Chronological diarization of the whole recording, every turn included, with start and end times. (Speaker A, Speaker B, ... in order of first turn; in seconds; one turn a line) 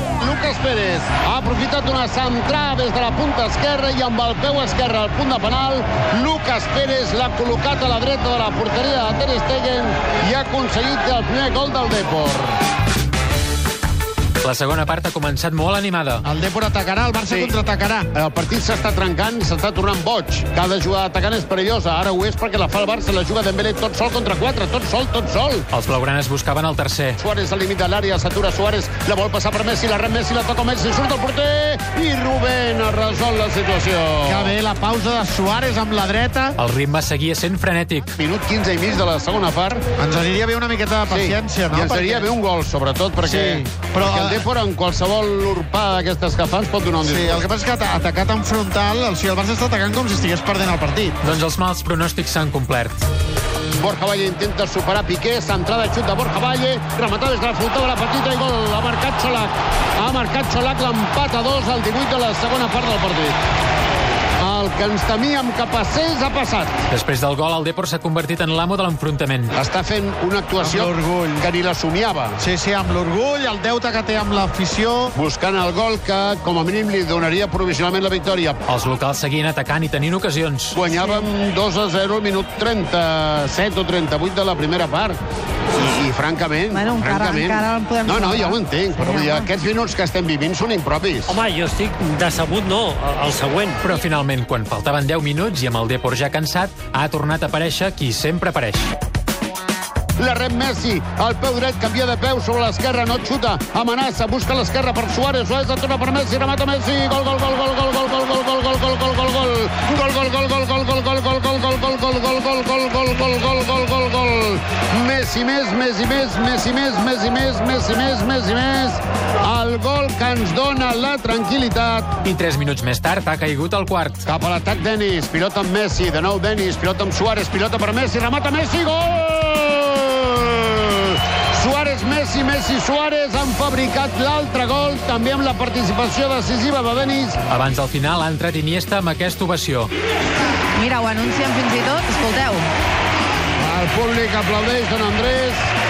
Speaker A: 0.2-12.6
Speaker B: 14.4-16.2
Speaker C: 16.2-18.1
Speaker A: 17.3-17.6
Speaker A: 18.1-25.7
Speaker B: 25.7-27.2
Speaker A: 27.2-34.5
Speaker C: 34.2-36.6
Speaker B: 36.6-38.1
Speaker A: 38.2-39.8
Speaker C: 40.0-42.3
Speaker A: 41.1-47.5
Speaker C: 43.2-44.5
Speaker C: 47.0-51.2
Speaker B: 51.2-53.0
Speaker A: 53.8-63.4
Speaker A: 64.4-66.7
Speaker B: 66.9-69.5
Speaker A: 69.5-72.4
Speaker C: 70.6-71.5
Speaker C: 72.4-75.1
Speaker A: 75.2-78.6
Speaker B: 78.7-80.8
Speaker A: 80.7-85.2
Speaker A: 85.8-91.4
Speaker D: 86.7-89.5
Speaker E: 91.3-93.8
Speaker B: 93.8-98.9
Speaker A: 100.2-122.1
Speaker B: 122.2-124.2
Speaker A: 124.2-137.4
Speaker B: 137.5-139.9
Speaker D: 140.8-142.7
Speaker A: 143.6-145.7